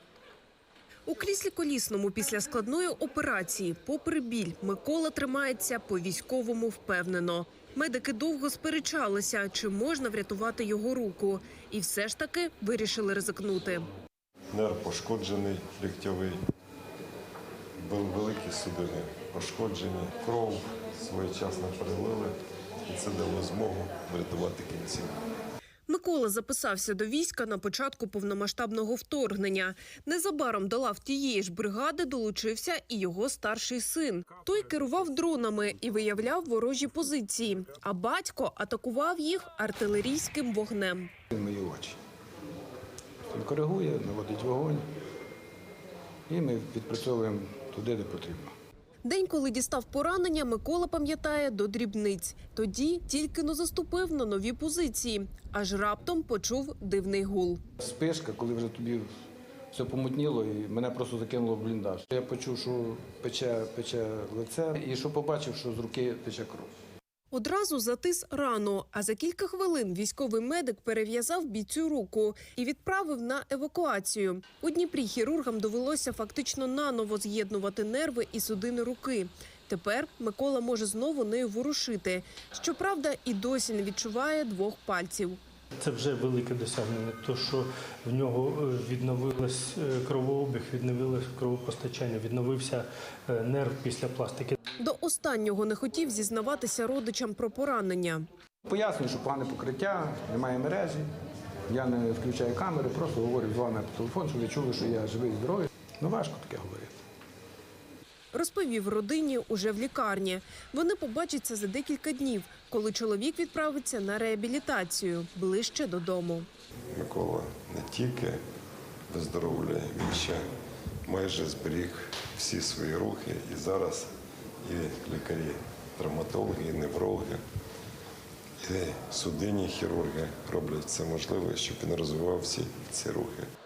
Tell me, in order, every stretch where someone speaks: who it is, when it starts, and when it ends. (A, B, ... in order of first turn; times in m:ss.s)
0:01.1-0:13.9 A
0:14.5-0:16.4 B
0:17.8-0:25.2 B
0:25.9-0:41.1 A
0:41.3-0:42.0 C
0:43.3-0:44.9 C
0:46.3-0:48.5 C
0:49.0-0:57.6 A
0:57.8-0:59.1 C
0:59.7-1:06.7 C
1:07.3-1:25.4 A
1:25.8-1:34.6 D
1:34.8-1:38.3 A
1:38.6-1:41.1 C
1:41.7-1:47.0 C
1:48.3-1:56.5 A
1:56.9-1:58.4 B
1:59.1-2:00.4 B
2:01.0-2:04.1 B
2:04.6-2:07.4 B
2:08.6-2:13.5 B